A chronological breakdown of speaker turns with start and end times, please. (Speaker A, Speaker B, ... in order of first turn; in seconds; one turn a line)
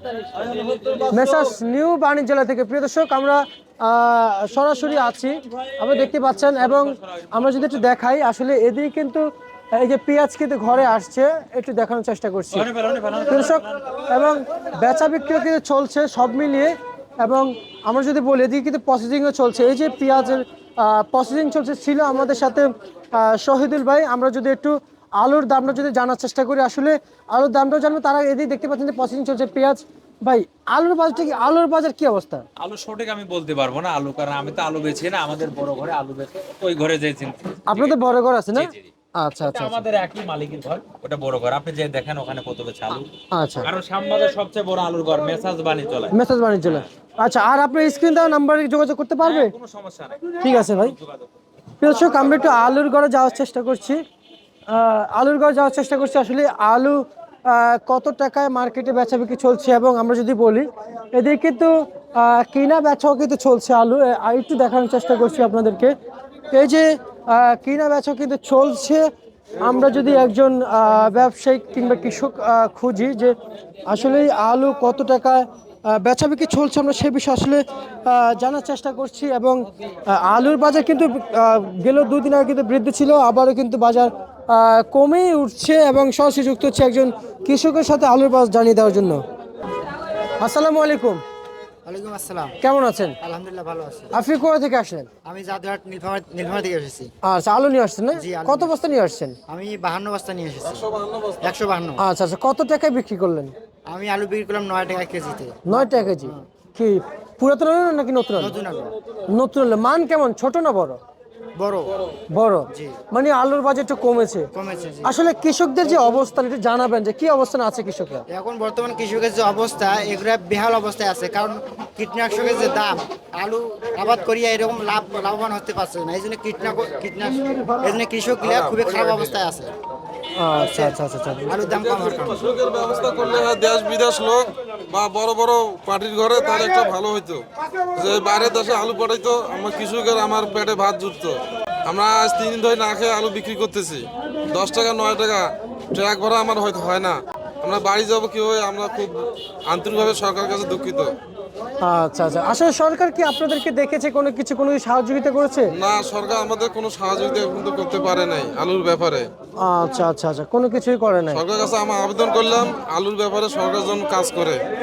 Speaker A: 0.2-1.1
Speaker B: 1.1-12.7
Speaker A: 6.4-7.9
Speaker A: 12.5-14.0
Speaker B: 13.3-32.4
Speaker A: 32.6-38.0
Speaker B: 37.7-39.8
Speaker A: 38.5-38.9
Speaker A: 39.4-43.1
Speaker B: 43.3-43.7
Speaker A: 43.6-46.9
Speaker B: 46.1-49.5
Speaker A: 49.2-51.3
Speaker B: 50.4-51.0
Speaker B: 51.8-54.0
Speaker B: 54.7-65.9
Speaker B: 66.5-69.1
Speaker B: 69.6-73.3
Speaker B: 73.9-89.2
Speaker B: 90.4-91.2
Speaker C: 91.8-92.6
Speaker B: 92.6-93.2
Speaker C: 93.2-94.1
Speaker B: 94.1-95.1
Speaker C: 95.2-97.1
Speaker B: 97.2-99.3
Speaker C: 98.2-98.7
Speaker C: 99.5-100.9
Speaker C: 101.4-102.0
Speaker B: 102.0-103.5
Speaker C: 103.9-105.6
Speaker B: 105.7-108.5
Speaker C: 108.4-108.9
Speaker B: 109.3-111.0
Speaker C: 111.6-111.9
Speaker B: 112.3-114.5
Speaker C: 114.5-115.1
Speaker B: 115.0-118.2
Speaker C: 118.3-129.7
Speaker B: 130.4-131.6
Speaker C: 131.5-132.4
Speaker D: 132.4-137.4
Speaker D: 137.9-151.1
Speaker B: 151.8-155.7
Speaker D: 155.8-159.3
Speaker B: 159.6-161.4
Speaker D: 161.3-164.6